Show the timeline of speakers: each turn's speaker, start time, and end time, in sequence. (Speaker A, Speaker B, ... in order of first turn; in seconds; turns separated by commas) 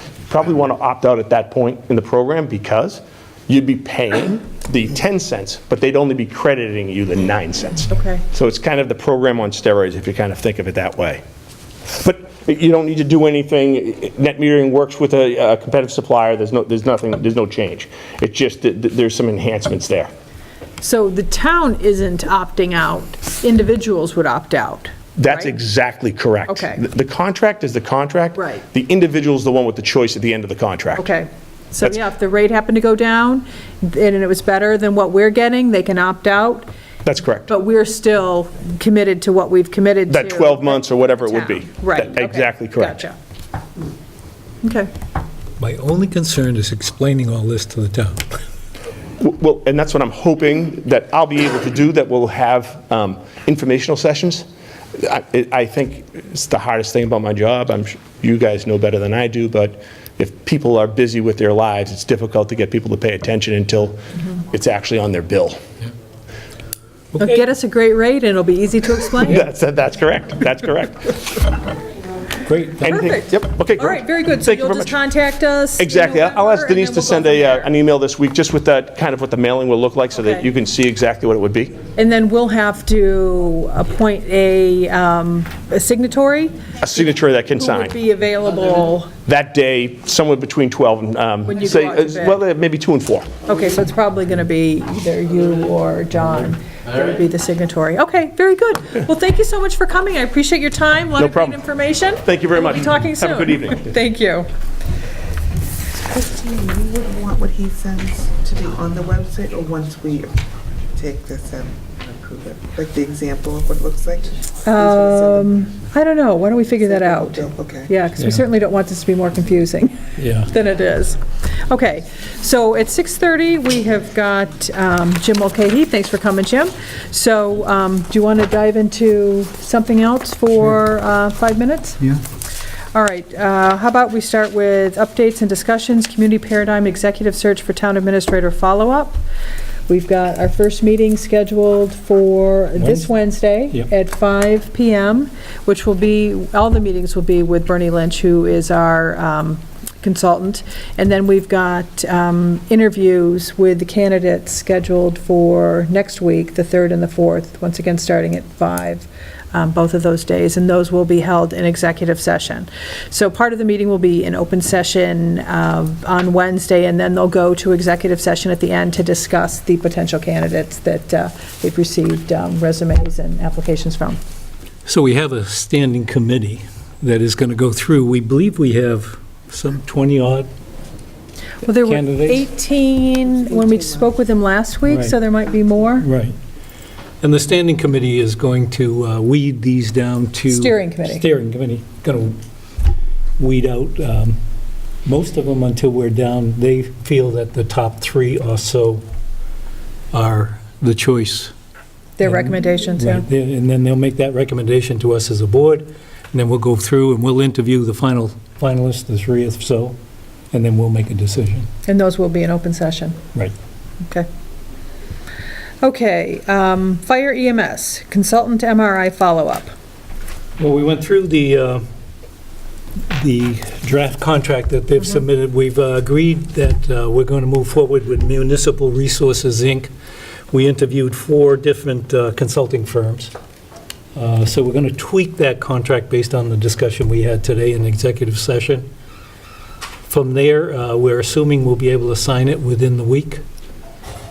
Speaker A: 0.3-11.2, Speaker B: 7.9-8.2, Speaker A: 11.9-20.1, Speaker B: 20.8-25.5, Speaker A: 25.2-31.1, Speaker B: 26.5-26.8, Speaker B: 28.4-28.6, Speaker B: 31.0-36.7, Speaker A: 37.0-37.5, Speaker B: 37.5-43.1, Speaker A: 40.1-43.0, Speaker B: 44.6-44.9, Speaker C: 45.6-48.3, Speaker A: 49.2-54.4, Speaker A: 55.0-65.6, Speaker C: 67.1-67.4, Speaker B: 67.2-69.4, Speaker A: 69.2-71.4, Speaker C: 72.5-73.0, Speaker A: 72.8-75.0, Speaker B: 72.9-77.7, Speaker A: 75.8-81.8, Speaker B: 80.2-80.4, Speaker B: 82.0-86.6, Speaker A: 86.8-88.0, Speaker B: 87.6-89.1, Speaker A: 89.2-93.3, Speaker B: 91.5-92.4, Speaker B: 93.5-104.5, Speaker A: 101.2-101.6, Speaker A: 102.2-103.9, Speaker D: 105.9-115.5, Speaker B: 114.6-132.2, Speaker D: 116.8-118.0, Speaker C: 118.2-118.4, Speaker C: 120.2-120.5, Speaker B: 132.9-139.2, Speaker B: 139.9-174.2, Speaker C: 142.8-143.1, Speaker C: 174.8-180.5, Speaker B: 181.6-186.1, Speaker C: 181.7-182.5, Speaker C: 184.8-185.2, Speaker C: 186.0-186.4, Speaker C: 187.2-192.4, Speaker B: 190.5-191.2, Speaker C: 193.4-194.4, Speaker C: 195.0-199.0, Speaker C: 200.1-201.5, Speaker B: 202.2-203.2, Speaker C: 202.2-210.0, Speaker C: 210.5-211.7, Speaker B: 211.8-213.2, Speaker B: 215.8-219.7, Speaker C: 220.6-221.8, Speaker C: 223.1-229.9, Speaker C: 230.5-233.3, Speaker C: 234.1-238.9, Speaker C: 240.1-243.4